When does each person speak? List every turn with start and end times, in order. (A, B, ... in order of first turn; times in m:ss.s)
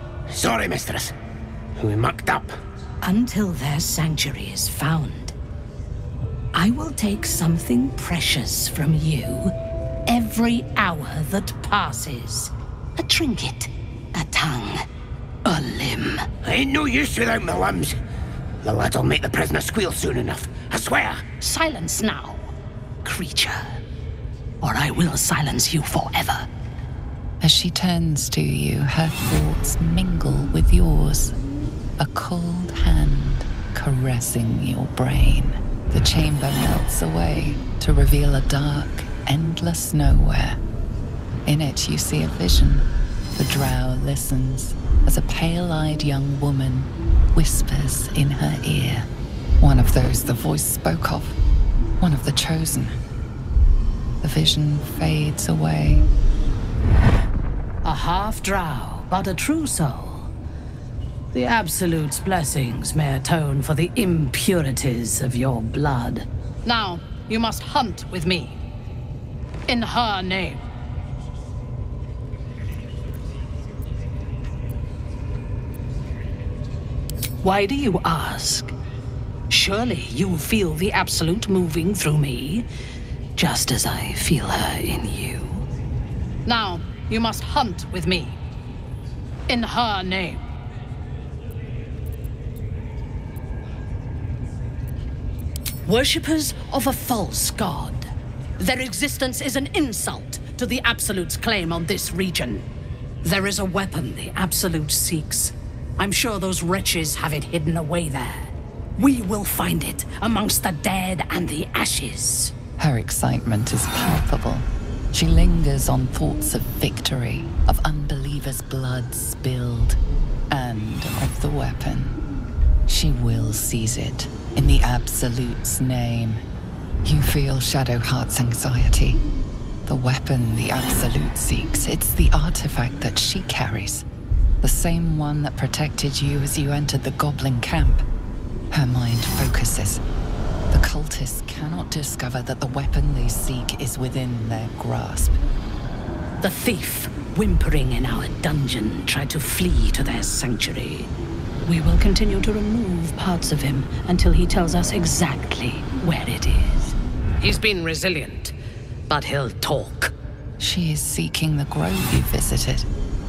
0:00.3-0:01.1 A
0:01.8-0:02.5 A
0:03.0-0:05.3 B
0:06.5-0:09.5 B
0:10.0-0:14.8 B
0:15.4-0:16.3 B
0:16.4-0:18.0 A
0:18.6-0:21.2 A
0:21.4-0:22.5 B
0:23.0-0:23.8 B
0:24.6-0:26.5 B
0:27.4-0:31.3 C
0:32.0-0:40.6 C
0:41.4-0:49.1 C
0:49.6-0:51.4 C
0:52.0-0:52.9 C
0:54.2-0:56.1 C
0:57.8-1:00.3 B
1:01.3-1:08.6 B
1:09.7-1:10.6 B
1:17.4-1:18.7 B
1:19.5-1:22.7 B
1:23.4-1:25.6 B
1:26.4-1:28.4 B
1:29.5-1:30.4 B
1:35.8-1:42.6 B
1:43.2-1:52.5 B
1:52.8-2:00.0 C
2:00.5-2:02.2 C
2:02.9-2:06.4 C
2:07.0-2:09.2 C
2:09.8-2:14.0 C
2:14.6-2:18.0 C
2:18.7-2:20.0 C
2:20.7-2:25.4 C
2:26.4-2:31.1 B
2:31.6-2:38.5 B
2:39.1-2:40.1 B
2:40.6-2:42.9 C